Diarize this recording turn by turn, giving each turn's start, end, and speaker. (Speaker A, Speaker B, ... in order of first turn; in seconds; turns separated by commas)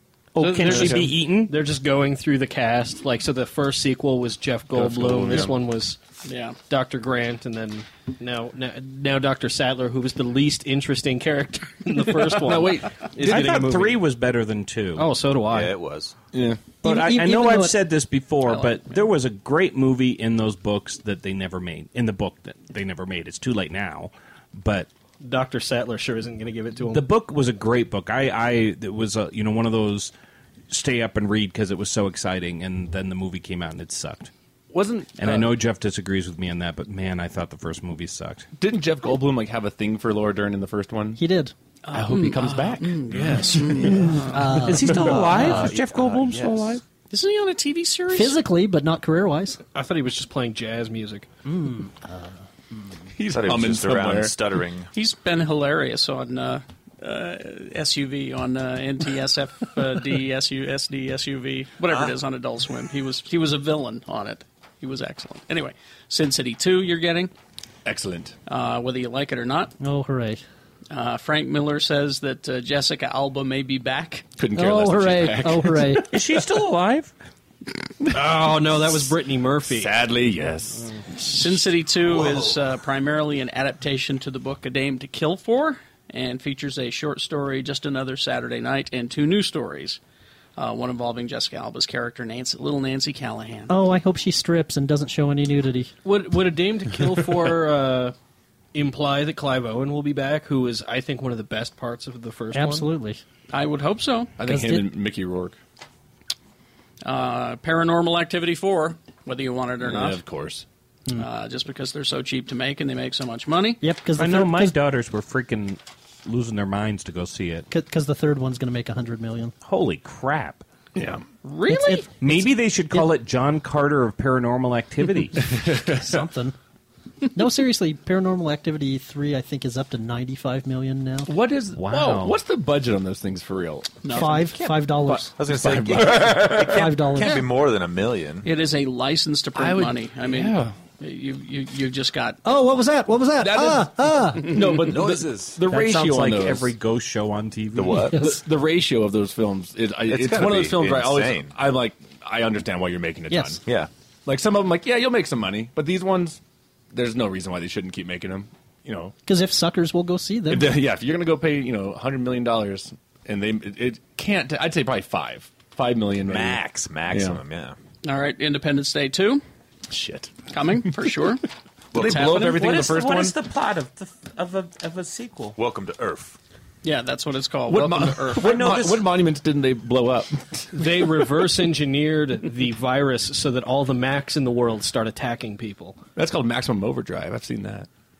Speaker A: 0.3-1.6, Speaker B: 0.4-6.0, Speaker C: 0.6-1.1, Speaker C: 4.7-5.6, Speaker D: 6.2-6.6, Speaker B: 6.7-14.0, Speaker C: 12.4-13.6, Speaker A: 13.2-15.1, Speaker B: 15.0-15.8, Speaker E: 15.5-16.1, Speaker C: 16.3-16.8, Speaker F: 16.8-17.8, Speaker A: 16.8-24.9, Speaker D: 18.4-19.0, Speaker B: 25.2-27.1, Speaker A: 26.9-30.1, Speaker A: 30.7-34.3, Speaker C: 34.7-35.5, Speaker A: 35.2-38.5, Speaker C: 38.6-41.2, Speaker F: 41.2-41.5, Speaker D: 41.9-44.5, Speaker C: 41.9-44.4, Speaker F: 43.9-45.7, Speaker A: 44.6-46.8, Speaker E: 45.2-46.8, Speaker D: 47.1-48.4, Speaker F: 48.1-49.6, Speaker B: 49.7-51.3, Speaker F: 51.5-53.0, Speaker C: 53.1-54.3, Speaker E: 53.3-54.9, Speaker D: 54.9-67.3, Speaker C: 67.8-68.3, Speaker D: 68.5-69.7, Speaker F: 69.8-70.4, Speaker D: 70.9-74.3, Speaker C: 74.4-76.1, Speaker F: 74.5-76.1, Speaker A: 76.1-77.1, Speaker B: 78.1-80.0, Speaker C: 79.7-81.5, Speaker D: 81.2-90.0, Speaker D: 90.6-93.7, Speaker F: 93.7-95.9, Speaker B: 96.0-98.1, Speaker B: 98.7-102.9, Speaker F: 102.5-103.2, Speaker D: 103.5-104.3, Speaker C: 104.4-105.6, Speaker F: 104.5-104.9, Speaker D: 107.0-110.2, Speaker C: 109.8-110.6, Speaker D: 111.1-113.8, Speaker F: 113.8-114.8, Speaker A: 114.2-117.7, Speaker F: 117.7-119.5, Speaker A: 119.6-120.6, Speaker C: 121.0-121.2, Speaker D: 121.4-122.1, Speaker F: 121.7-123.1, Speaker A: 122.2-125.5, Speaker C: 125.4-126.2, Speaker F: 125.7-126.6, Speaker F: 127.3-131.3, Speaker C: 131.3-134.4, Speaker A: 131.8-132.4, Speaker D: 134.0-134.3, Speaker F: 134.1-135.3, Speaker C: 135.0-136.9, Speaker E: 135.4-138.5, Speaker F: 136.6-137.4, Speaker D: 138.4-142.4, Speaker C: 139.6-140.8, Speaker F: 142.4-144.6, Speaker C: 143.4-146.7, Speaker E: 144.8-145.6, Speaker A: 145.7-148.1, Speaker E: 147.8-148.3, Speaker C: 148.1-153.6, Speaker E: 150.1-151.6, Speaker F: 153.3-153.6, Speaker E: 153.6-153.9, Speaker C: 154.3-156.4, Speaker C: 156.9-159.1, Speaker F: 159.3-160.7, Speaker C: 160.5-167.4, Speaker E: 166.2-167.8, Speaker D: 168.0-169.4, Speaker C: 169.9-170.3, Speaker D: 170.5-171.4, Speaker E: 171.9-172.4, Speaker C: 171.9-173.4, Speaker D: 172.0-172.6, Speaker A: 172.4-175.6, Speaker E: 175.6-176.4, Speaker D: 176.8-178.7, Speaker C: 177.7-180.9, Speaker A: 178.4-179.1, Speaker B: 180.7-186.0, Speaker C: 186.2-187.9